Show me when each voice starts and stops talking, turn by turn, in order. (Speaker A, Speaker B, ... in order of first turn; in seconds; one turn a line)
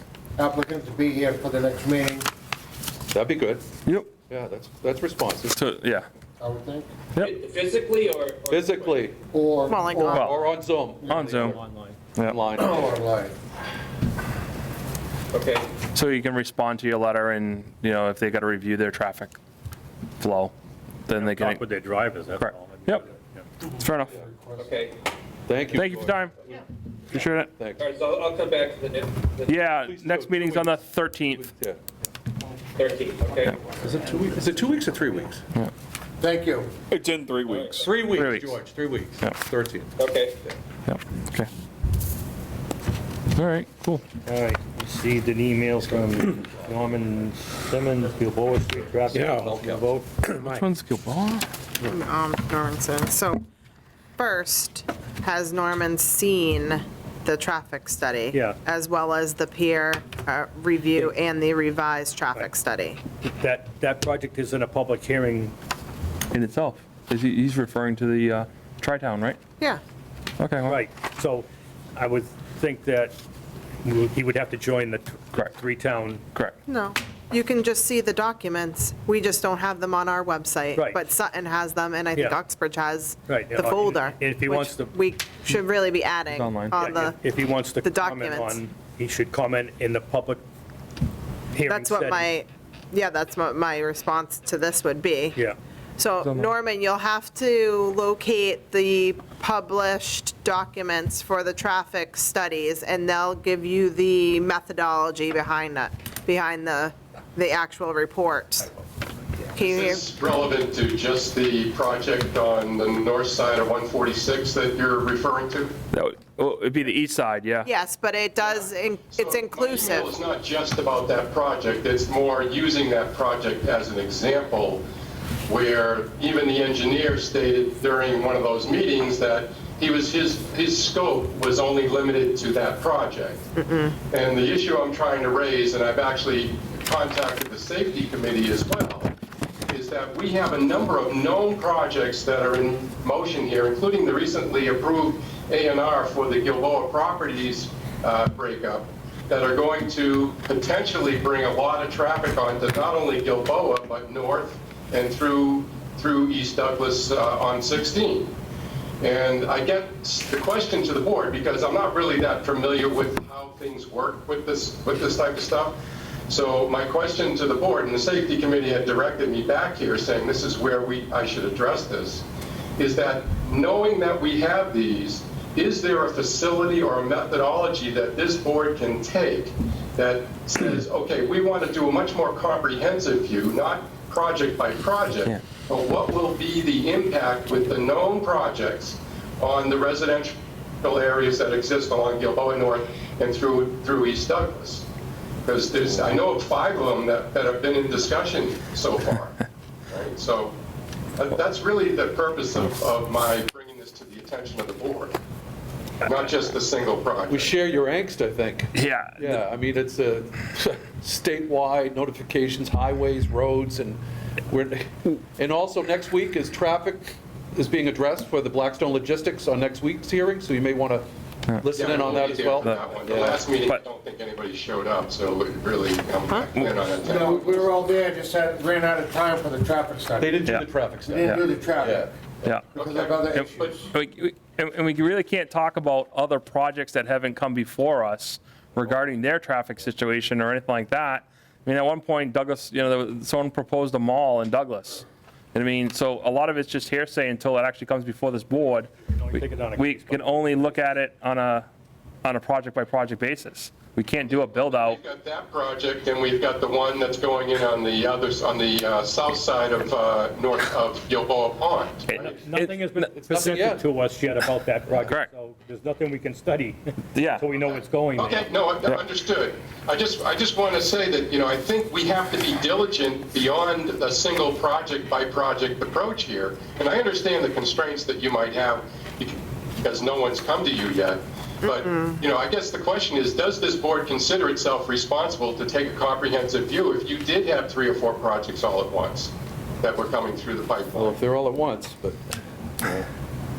Speaker A: 0.4-2.3
Speaker B: 3.1-3.7
Speaker B: 4.3-5.5
Speaker C: 5.5-6.1
Speaker A: 6.4-6.9
Speaker D: 7.3-9.0
Speaker B: 8.5-9.2
Speaker A: 9.3-10.2
Speaker E: 9.7-10.4
Speaker B: 9.9-11.6
Speaker C: 10.1-10.3
Speaker A: 11.0-11.5
Speaker C: 11.1-11.6
Speaker F: 11.4-12.0
Speaker C: 12.2-12.4
Speaker B: 12.2-13.0
Speaker A: 12.6-13.3
Speaker D: 15.3-15.6
Speaker C: 15.9-19.3
Speaker C: 20.2-20.5
Speaker C: 21.1-21.6
Speaker F: 21.2-23.5
Speaker C: 22.4-23.1
Speaker C: 23.8-24.1
Speaker A: 24.1-24.7
Speaker D: 24.6-24.9
Speaker B: 25.5-26.2
Speaker C: 25.7-26.4
Speaker C: 27.1-27.5
Speaker B: 27.6-27.8
Speaker D: 27.8-29.4
Speaker C: 29.5-31.4
Speaker B: 29.8-31.9
Speaker D: 32.8-33.6
Speaker B: 33.8-35.4
Speaker A: 36.2-36.7
Speaker D: 37.5-37.9
Speaker B: 37.7-40.0
Speaker C: 38.0-38.6
Speaker D: 40.0-40.3
Speaker C: 40.9-41.5
Speaker C: 43.3-44.1
Speaker F: 44.2-50.3
Speaker B: 49.1-50.6
Speaker C: 50.4-51.5
Speaker E: 51.8-53.4
Speaker E: 54.2-63.0
Speaker F: 58.3-58.6
Speaker F: 63.3-65.5
Speaker C: 66.3-69.4
Speaker C: 70.4-70.8
Speaker F: 70.6-73.2
Speaker F: 73.8-76.2
Speaker E: 76.7-87.2
Speaker F: 80.8-81.0
Speaker F: 82.2-82.4
Speaker F: 83.3-85.0
Speaker C: 86.3-87.1
Speaker F: 86.8-90.4
Speaker E: 87.7-88.6
Speaker F: 91.5-92.3
Speaker E: 91.7-95.5
Speaker E: 96.0-108.8
Speaker C: 96.2-96.5
Speaker E: 109.5-110.1
Speaker G: 109.6-115.8
Speaker C: 115.9-117.7
Speaker E: 117.6-120.2
Speaker G: 118.4-124.8
Speaker G: 125.5-133.5
Speaker E: 133.6-134.0
Speaker G: 134.1-139.1
Speaker G: 139.7-158.3
Speaker G: 159.0-165.8
Speaker G: 166.3-172.3
Speaker G: 172.8-194.9
Speaker G: 195.4-200.6
Speaker G: 201.2-205.2
Speaker G: 206.0-207.6
Speaker B: 207.3-223.4
Speaker C: 208.8-209.4
Speaker G: 221.7-227.8
Speaker C: 222.5-222.9
Speaker A: 227.0-230.5
Speaker B: 230.2-232.1
Speaker A: 231.1-233.9
Speaker G: 232.8-233.9
Speaker C: 233.4-251.7
Speaker F: 249.1-250.8
Speaker C: 252.2-255.0
Speaker G: 254.2-262.4
Speaker C: 262.1-263.1
Speaker F: 262.1-268.5
Speaker B: 263.1-263.9
Speaker C: 265.0-265.3
Speaker C: 267.1-267.5
Speaker G: 268.2-291.2
Speaker E: 281.6-282.2
Speaker B: 290.9-292.2